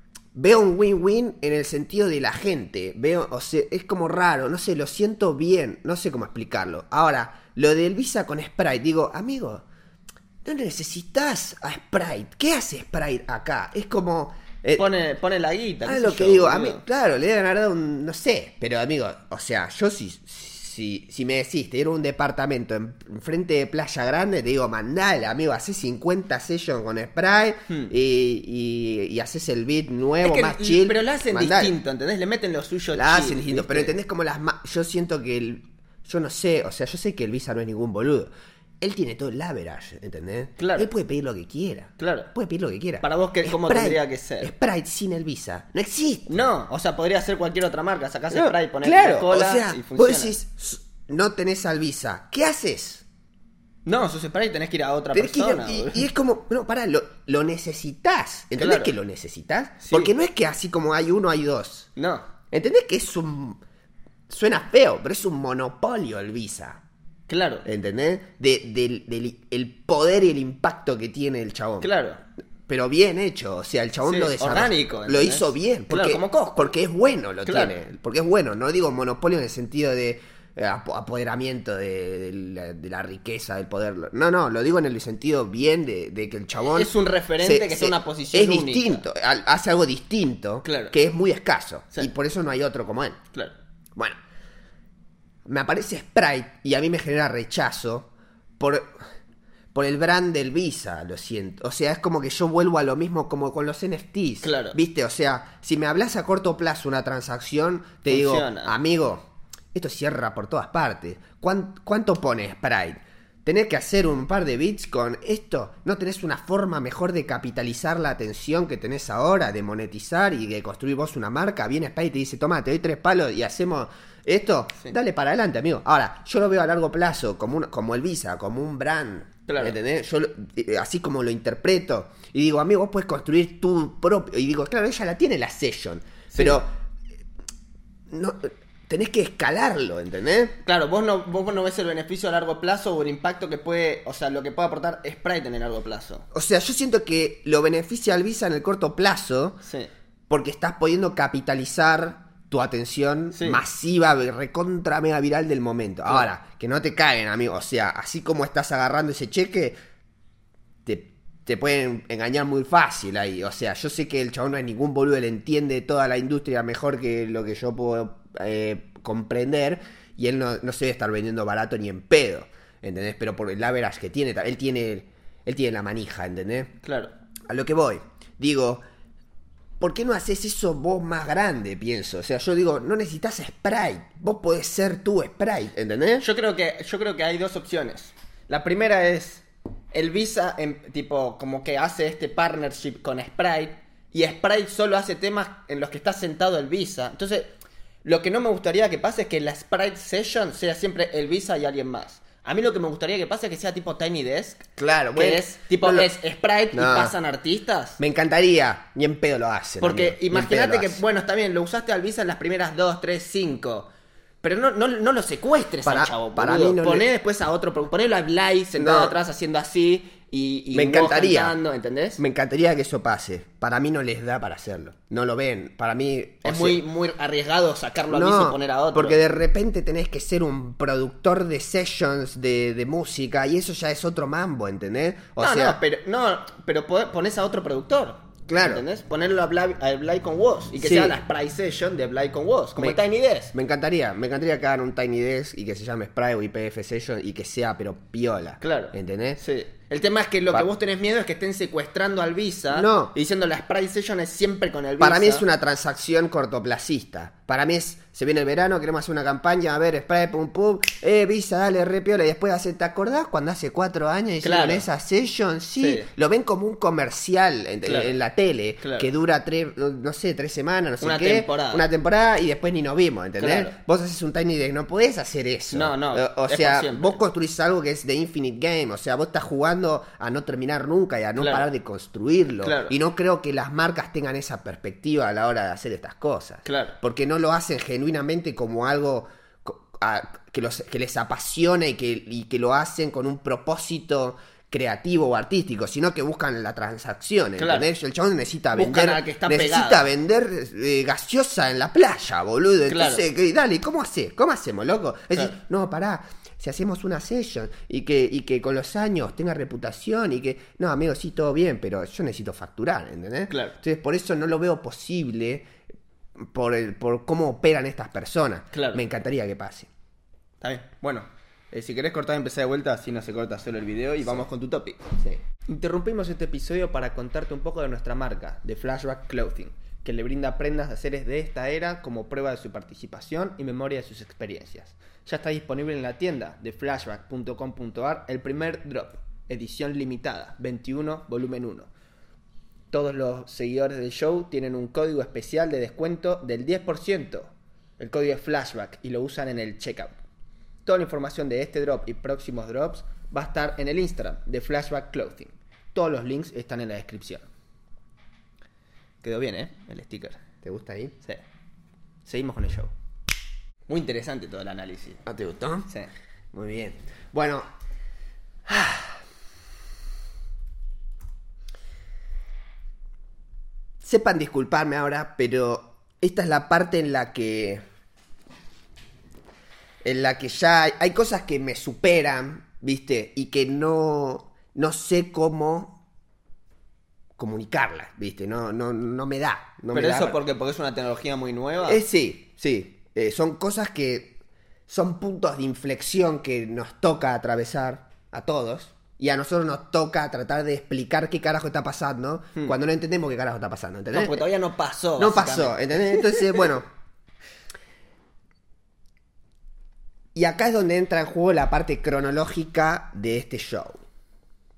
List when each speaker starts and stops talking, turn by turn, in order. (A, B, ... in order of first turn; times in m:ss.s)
0:00.4-0:09.6 A
0:10.4-0:14.9 A
0:14.8-0:16.8 B
0:15.8-0:31.8 A
0:30.2-0:33.9 B
0:32.9-0:46.3 A
0:40.6-0:40.9 B
0:42.0-0:42.3 B
0:43.0-0:44.5 B
0:46.3-0:50.3 B
0:48.3-0:53.0 A
0:53.9-0:56.1 B
0:55.1-1:01.9 A
0:58.6-0:58.9 B
0:59.8-1:00.1 B
1:02.0-1:02.3 B
1:02.5-1:03.6 A
1:04.3-1:06.8 A
1:07.3-1:07.7 B
1:07.6-1:11.9 A
1:11.8-1:12.2 B
1:12.7-1:33.2 A
1:14.0-1:16.7 B
1:17.5-1:17.8 B
1:26.6-1:29.0 B
1:30.6-1:31.0 B
1:35.5-1:39.0 A
1:39.7-2:16.7 A
1:44.4-1:44.8 B
1:48.1-1:48.7 B
2:09.5-2:09.8 B
2:16.3-2:16.6 B
2:18.1-2:20.6 A
2:20.6-2:26.2 B
2:26.3-2:29.6 A
2:29.6-2:29.9 B
2:30.3-2:39.8 A
2:33.3-2:33.6 B
2:40.9-2:56.7 A
2:56.8-2:57.1 B
2:57.5-2:58.8 A
2:59.8-3:06.3 A
3:06.2-3:17.5 B
3:18.0-3:28.0 B
3:24.8-3:26.1 A
3:26.7-3:27.1 A
3:28.0-3:31.0 A
3:29.8-3:33.9 B
3:34.4-3:42.2 B
3:35.8-3:37.1 A
3:38.8-3:39.2 A
3:40.7-3:41.6 A
3:42.2-3:46.8 A
3:46.4-3:49.2 B
3:48.1-3:55.8 A
3:55.4-4:03.5 B
3:58.5-3:58.8 A
4:00.8-4:01.2 A
4:03.5-4:09.4 A
4:08.6-4:15.4 B
4:12.7-4:13.1 A
4:15.0-5:15.7 A
4:24.4-4:24.9 B
4:25.8-4:26.1 B
4:27.8-4:28.2 B
4:28.8-4:29.1 B
4:31.0-4:31.9 B
4:33.4-4:33.8 B
4:35.7-4:37.2 B
4:41.4-4:41.7 B
4:42.6-4:43.0 B
4:46.6-4:47.0 B
4:57.6-4:57.9 B
4:58.7-5:00.0 B
5:02.9-5:03.2 B
5:13.5-5:13.8 B
5:16.4-5:19.9 A
5:18.7-5:19.0 B
5:20.6-5:25.1 B
5:25.7-5:41.9 B
5:42.9-5:50.2 B
5:50.9-5:57.5 B
5:59.2-6:00.4 B
6:00.6-6:01.2 A
6:02.2-6:02.9 B
6:03.9-6:05.2 B
6:05.3-6:05.9 A
6:06.5-6:07.7 A
6:08.7-6:09.2 A
6:14.0-6:17.8 A
6:20.0-6:26.0 A
6:27.4-6:30.4 A
6:29.9-6:32.0 B
6:31.8-6:34.4 A
6:34.9-6:44.4 A
6:44.1-6:46.5 B
6:45.2-6:46.9 A
6:50.4-6:54.0 A